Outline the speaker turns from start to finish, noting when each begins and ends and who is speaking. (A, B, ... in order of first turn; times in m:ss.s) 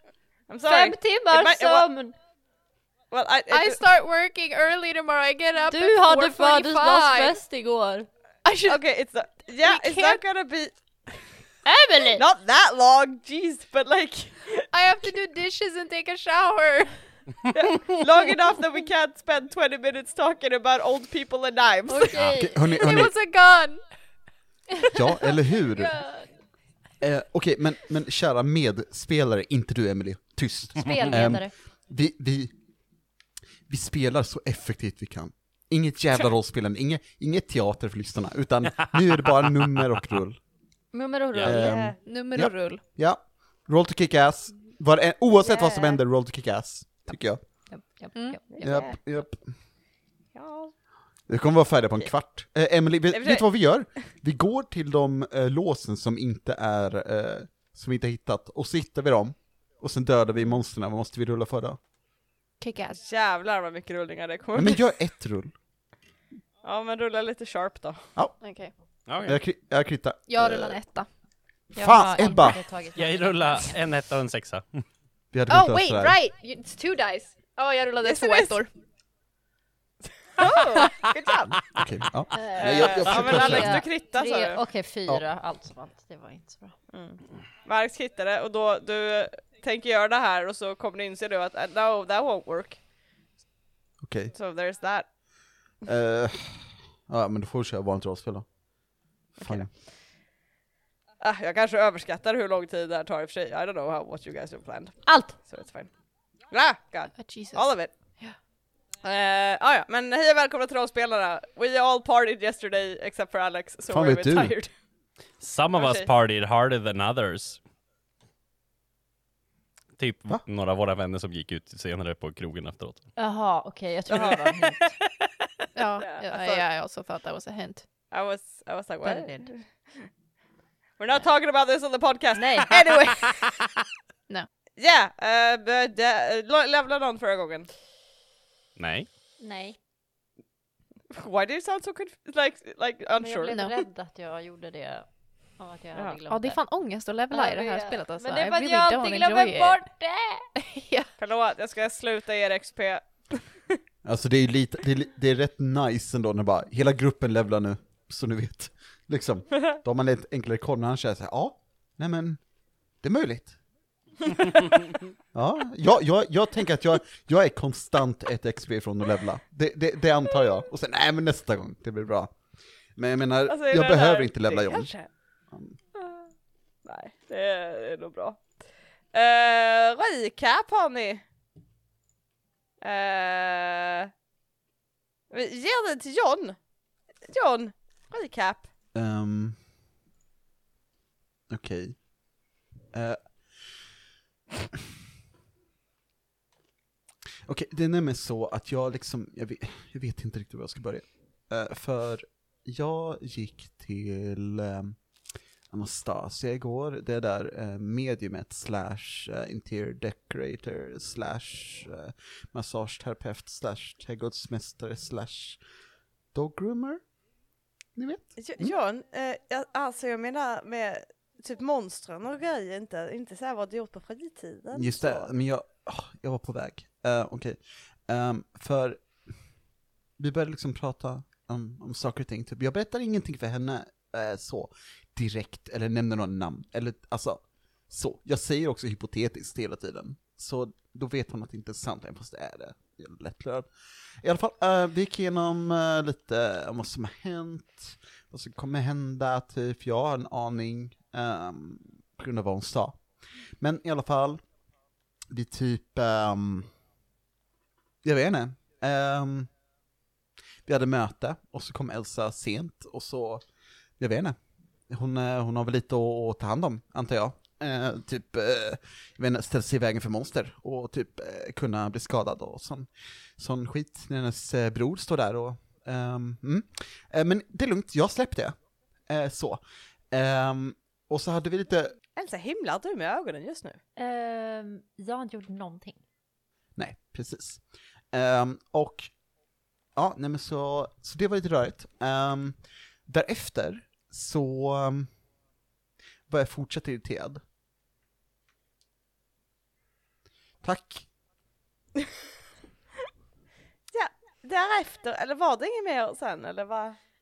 0:00.5-0:01.9 A
0:00.7-0:02.2 B
0:03.1-0:03.8 A
0:03.5-0:07.4 C
0:05.7-0:08.1 B
0:08.4-0:08.9 C
0:08.6-0:11.4 A
0:09.6-0:10.2 C
0:11.7-0:12.2 B
0:12.1-0:14.7 A
0:14.7-0:17.2 C
0:17.5-0:22.2 A
0:21.9-0:24.0 C
0:22.1-0:22.4 D
0:22.4-0:23.2 E
0:24.9-0:26.2 E
0:25.9-0:26.3 B
0:27.0-0:32.6 E
0:30.8-0:31.5 B
0:33.7-0:40.6 E
0:40.9-0:42.0 B
0:41.4-0:41.6 D
0:41.4-0:47.8 E
0:41.5-0:42.0 A
0:42.0-0:42.8 C
0:45.3-0:46.0 A
0:47.6-0:48.9 B
0:48.1-0:48.4 C
0:48.5-0:49.0 A
0:48.6-0:49.6 E
0:50.3-0:50.8 A
0:51.3-1:01.8 E
0:53.1-0:53.8 A
1:02.6-1:03.0 C
1:03.0-1:04.9 A
1:04.5-1:05.6 E
1:06.6-1:08.1 A
1:08.2-1:10.8 E
1:08.4-1:08.7 C
1:09.1-1:09.4 D
1:10.3-1:11.2 C
1:11.7-1:13.8 B
1:11.8-1:12.6 E
1:12.9-1:14.8 D
1:15.3-1:16.2 E
1:15.5-1:18.7 C
1:18.0-1:18.6 A
1:20.3-1:21.5 A
1:21.5-1:23.8 E
1:22.3-1:26.9 B
1:22.5-1:24.6 A
1:26.9-1:32.8 A
1:34.0-1:34.3 E
1:34.3-1:35.2 A
1:35.8-1:38.6 E
1:39.3-1:39.7 E
1:39.4-1:40.1 A
1:41.2-1:48.2 A
1:45.0-1:45.4 B
1:47.2-1:48.4 C
1:49.0-1:54.8 A
1:53.9-1:54.6 E
1:55.4-1:57.6 D
1:55.8-1:56.1 A
2:00.0-2:03.1 D
2:03.2-2:05.0 B
2:04.1-2:05.3 A
2:05.8-2:07.9 C
2:06.0-2:06.7 A
2:08.1-2:10.1 A
2:09.0-2:09.5 C
2:11.0-2:13.4 A
2:12.4-2:13.0 B
2:14.8-2:17.7 A
2:18.8-2:19.1 D
2:19.4-2:19.8 B
2:21.1-2:23.6 A
2:23.2-2:26.6 B
2:26.3-2:29.9 C
2:27.3-2:30.5 B
2:30.6-2:31.1 C
2:31.2-2:33.8 A
2:34.0-2:42.4 E
2:43.0-2:43.6 E
2:45.3-2:55.8 E
2:53.5-2:55.4 A
2:56.0-2:56.3 A
2:56.8-3:01.3 A
3:02.8-3:04.1 A
3:05.3-3:06.7 A
3:07.2-3:08.7 A
3:08.9-3:09.6 E
3:11.5-3:12.2 E
3:12.9-3:13.9 E
3:17.4-3:25.0 E
3:25.7-3:35.6 E
3:36.3-3:37.1 E
3:38.0-3:38.7 E
3:38.4-3:45.3 A
3:44.7-3:49.5 E
3:50.2-4:14.5 E
4:15.3-4:16.8 E
4:18.0-4:19.5 E
4:20.6-4:23.5 E
4:24.0-4:41.9 E
4:42.2-4:43.8 A
4:44.0-4:46.0 B
4:46.8-4:49.2 E
4:49.9-4:55.2 E
4:56.3-4:57.4 E
5:00.6-5:01.1 E
5:03.9-5:07.0 A